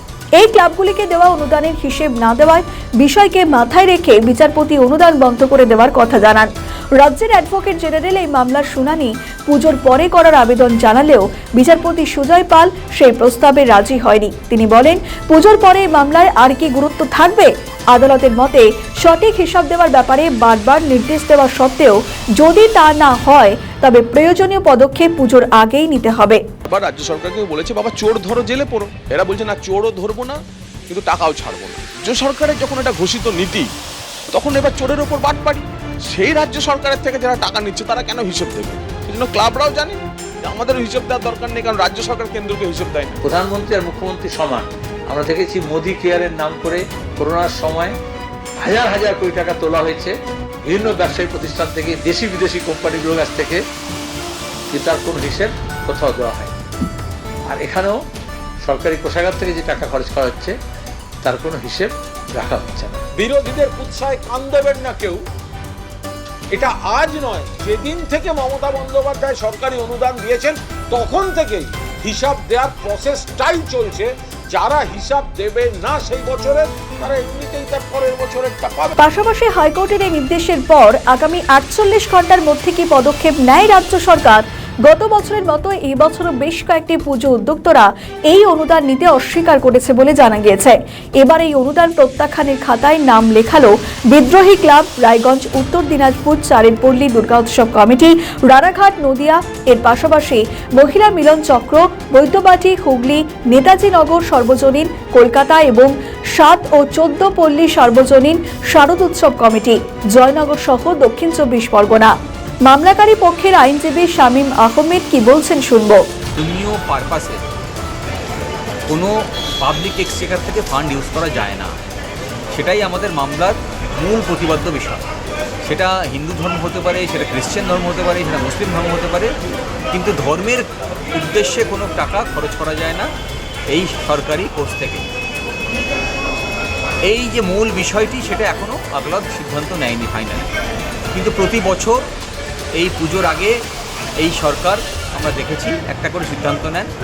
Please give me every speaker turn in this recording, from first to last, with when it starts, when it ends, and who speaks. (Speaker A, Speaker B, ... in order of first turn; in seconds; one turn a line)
Speaker A: 0.4-26.4
Speaker B: 26.7-33.7
Speaker B: 34.3-43.2
Speaker C: 43.2-47.9
Speaker C: 48.6-50.1
Speaker C: 50.7-53.6
Speaker C: 54.7-56.5
Speaker C: 57.5-58.0
Speaker C: 58.6-60.5
Speaker C: 61.2-63.0
Speaker D: 63.1-65.2
Speaker D: 66.5-79.0
Speaker A: 79.0-112.1
Speaker A: 112.7-116.0
Speaker E: 116.4-117.4
Speaker E: 119.6-121.7
Speaker E: 122.5-125.0
Speaker E: 125.7-129.3
Speaker E: 129.9-133.1
Speaker E: 133.7-135.1
Speaker E: 137.1-140.5
Speaker E: 141.1-142.0
Speaker E: 142.8-143.5
Speaker E: 144.2-146.9